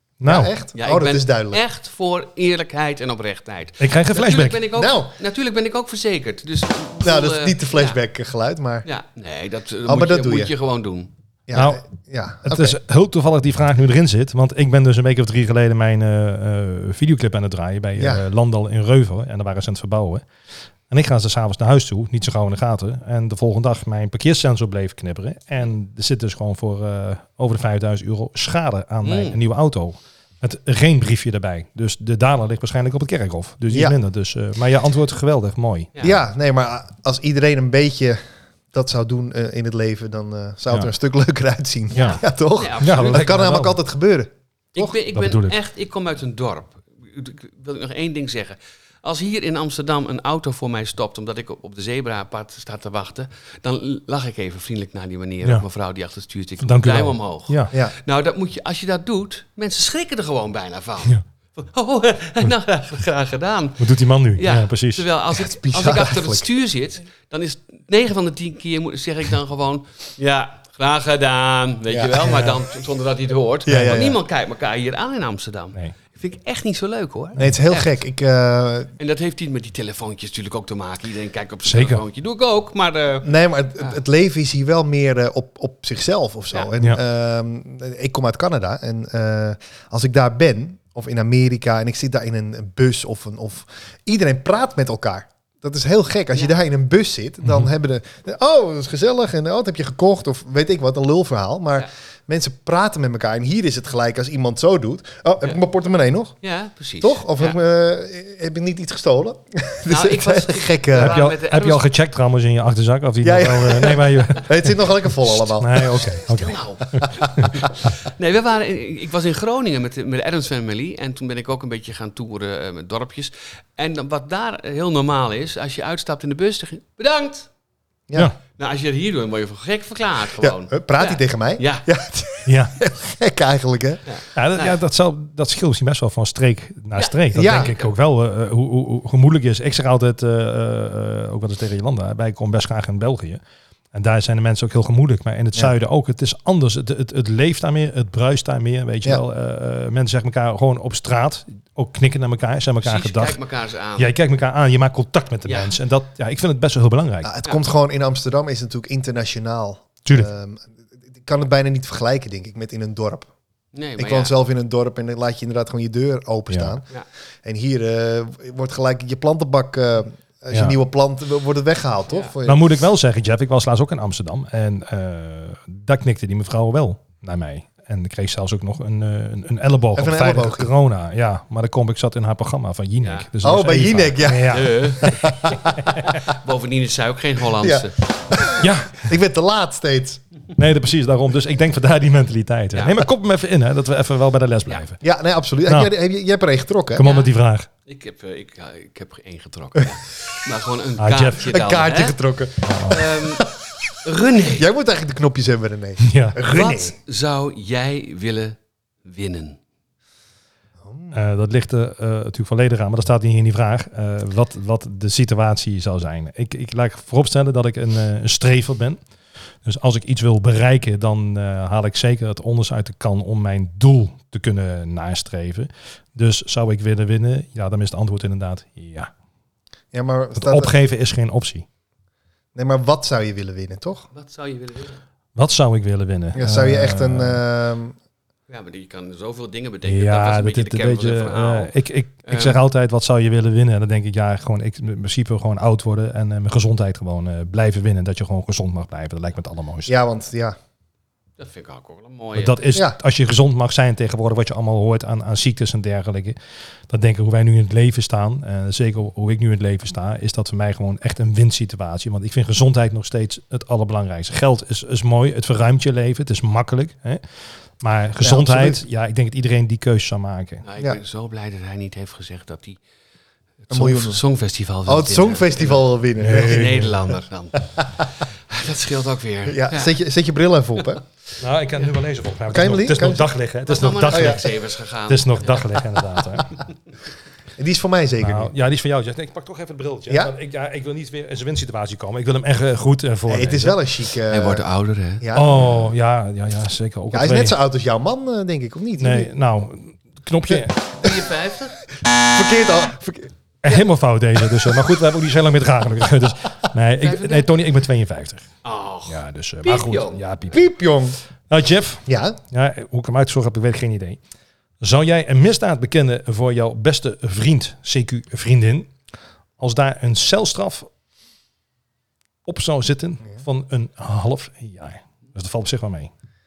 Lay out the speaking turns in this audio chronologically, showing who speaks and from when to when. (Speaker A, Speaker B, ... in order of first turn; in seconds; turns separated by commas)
Speaker A: 0.2-0.5, Speaker B: 0.2-1.6, Speaker C: 0.8-8.0, Speaker A: 3.8-4.6, Speaker B: 4.8-5.1, Speaker B: 7.0-8.9, Speaker C: 8.8-11.1, Speaker B: 9.9-10.5, Speaker B: 11.5-12.8, Speaker A: 11.5-11.8, Speaker A: 12.4-20.2, Speaker B: 18.0-18.2, Speaker A: 20.9-35.9, Speaker C: 29.0-29.4, Speaker B: 33.7-34.0, Speaker B: 36.0-38.2, Speaker B: 38.7-44.9, Speaker C: 41.9-43.4, Speaker A: 42.0-42.2, Speaker A: 42.8-43.8, Speaker C: 44.8-78.0, Speaker A: 45.1-45.6, Speaker A: 56.6-57.7, Speaker A: 63.8-65.1, Speaker B: 65.3-66.5, Speaker B: 71.9-72.3, Speaker B: 73.7-74.2, Speaker A: 73.7-74.0, Speaker B: 77.4-78.9, Speaker C: 79.0-84.0, Speaker A: 81.7-82.0, Speaker B: 83.2-106.4, Speaker C: 106.4-107.6, Speaker B: 107.0-111.2, Speaker C: 109.9-111.9, Speaker A: 111.0-117.5, Speaker B: 113.2-116.1, Speaker C: 116.3-127.5, Speaker C: 128.6-131.9, Speaker B: 130.4-134.0, Speaker A: 132.5-132.8, Speaker C: 134.1-134.8, Speaker A: 134.3-143.4, Speaker C: 136.9-137.9, Speaker B: 137.3-137.7, Speaker A: 143.9-153.4, Speaker C: 152.8-154.1, Speaker A: 154.0-157.3, Speaker C: 155.5-155.8, Speaker B: 157.2-163.3, Speaker A: 160.1-160.3, Speaker C: 163.7-164.3, Speaker B: 164.0-166.9, Speaker A: 166.5-166.8, Speaker B: 167.4-172.7, Speaker A: 170.5-170.8, Speaker A: 172.4-186.1, Speaker B: 179.9-180.7, Speaker C: 183.0-183.3, Speaker B: 183.4-185.9, Speaker C: 184.5-188.0, Speaker B: 187.6-190.2, Speaker A: 188.6-189.1, Speaker A: 190.6-195.0, Speaker C: 192.7-193.0, Speaker B: 195.0-197.1, Speaker A: 195.7-195.9, Speaker A: 196.9-197.7, Speaker C: 197.0-197.3, Speaker C: 197.9-202.2, Speaker A: 201.0-201.5, Speaker B: 201.4-203.6, Speaker A: 202.6-203.1, Speaker C: 202.9-203.5, Speaker C: 204.0-204.7, Speaker B: 204.5-206.9, Speaker A: 206.0-206.4, Speaker C: 206.5-209.6, Speaker B: 210.8-211.2, Speaker A: 211.1-219.0, Speaker A: 219.7-229.1, Speaker B: 229.9-230.7, Speaker A: 230.4-231.7, Speaker B: 232.6-234.1, Speaker C: 234.1-235.0, Speaker A: 235.4-237.4, Speaker B: 236.3-238.0, Speaker C: 238.5-241.7, Speaker A: 239.8-249.9, Speaker C: 242.3-242.6, Speaker B: 249.9-250.6, Speaker C: 251.4-252.8, Speaker A: 252.3-256.4, Speaker A: 256.9-267.2, Speaker A: 267.8-270.6, Speaker B: 268.2-268.8, Speaker C: 270.6-272.8, Speaker C: 273.7-279.9, Speaker B: 273.7-274.2, Speaker B: 274.9-276.9, Speaker A: 276.2-277.0, Speaker B: 279.5-281.0, Speaker A: 281.4-286.6, Speaker B: 282.5-283.3, Speaker C: 283.7-286.0, Speaker B: 284.1-284.4, Speaker B: 287.6-288.5, Speaker A: 288.2-293.8, Speaker B: 290.1-290.3, Speaker B: 293.3-294.6, Speaker C: 294.3-295.3, Speaker B: 295.2-295.8, Speaker A: 295.3-297.6, Speaker B: 297.1-299.3, Speaker A: 299.0-300.8, Speaker C: 301.0-301.8, Speaker B: 302.1-303.3, Speaker A: 303.6-308.5, Speaker C: 307.0-307.5, Speaker C: 308.6-310.2, Speaker A: 309.1-310.7, Speaker B: 310.5-311.2, Speaker A: 311.5-314.2, Speaker B: 312.1-312.4, Speaker A: 314.8-318.9, Speaker A: 319.6-320.9, Speaker A: 322.5-326.1